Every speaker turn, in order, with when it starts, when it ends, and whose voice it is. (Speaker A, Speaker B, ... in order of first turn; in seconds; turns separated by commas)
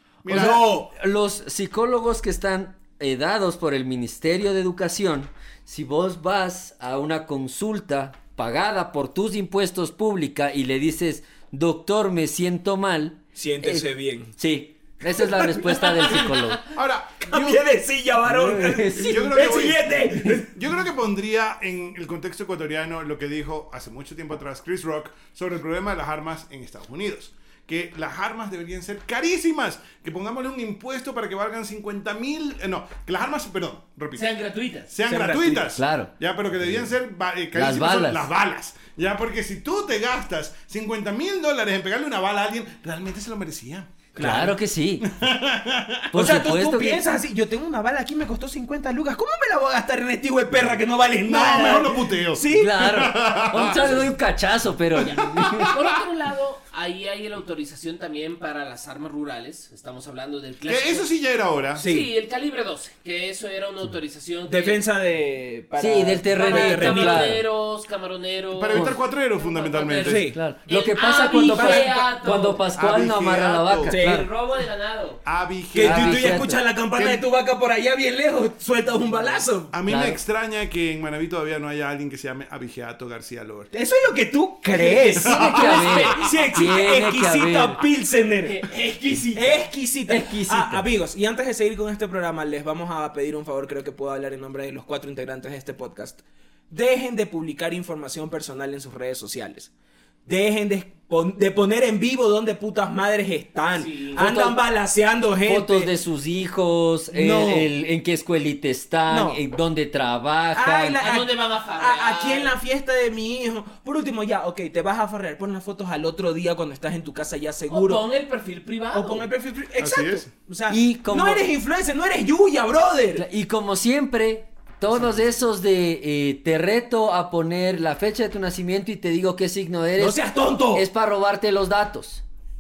Speaker A: 0.2-0.7, Speaker B: 0.3-0.9, Speaker C: 0.3-16.6, Speaker B: 13.3-14.3, Speaker B: 15.1-16.2, Speaker D: 16.0-16.5, Speaker A: 16.7-17.6, Speaker B: 17.3-20.5, Speaker C: 18.2-19.3, Speaker A: 19.0-34.3, Speaker D: 34.2-34.9, Speaker A: 34.9-44.0, Speaker B: 35.1-35.7, Speaker C: 35.8-36.1, Speaker C: 36.6-36.9, Speaker C: 37.5-38.3, Speaker B: 44.1-44.6, Speaker C: 44.2-45.0, Speaker A: 45.0-46.2, Speaker C: 46.1-47.0, Speaker B: 46.1-52.8, Speaker A: 51.3-54.1, Speaker C: 52.5-55.7, Speaker D: 53.6-54.1, Speaker D: 55.0-61.1, Speaker A: 55.4-55.9, Speaker A: 60.7-61.9, Speaker B: 61.8-62.1, Speaker D: 61.8-64.8, Speaker B: 64.5-67.3, Speaker C: 65.8-67.5, Speaker D: 66.3-72.6, Speaker A: 68.5-70.3, Speaker B: 70.0-70.4, Speaker C: 70.3-74.3, Speaker B: 71.5-72.0, Speaker A: 72.8-74.0, Speaker B: 73.9-74.3, Speaker D: 74.0-75.2, Speaker A: 75.3-77.2, Speaker B: 75.7-79.7, Speaker C: 75.8-76.6, Speaker A: 79.7-83.7, Speaker C: 79.9-80.2, Speaker B: 83.7-88.6, Speaker C: 84.7-87.8, Speaker A: 84.9-85.9, Speaker D: 85.5-86.8, Speaker D: 88.4-89.7, Speaker B: 89.3-99.7, Speaker C: 90.1-90.9, Speaker B: 100.3-105.9, Speaker D: 103.7-104.3, Speaker C: 104.2-104.6, Speaker C: 105.5-111.0, Speaker B: 107.1-107.7, Speaker B: 109.1-109.4, Speaker B: 110.5-118.0, Speaker D: 111.0-112.5, Speaker D: 117.7-119.3, Speaker B: 118.9-123.2, Speaker A: 119.8-120.3, Speaker C: 120.7-121.5, Speaker C: 123.2-130.2, Speaker B: 130.0-130.9, Speaker C: 130.7-132.2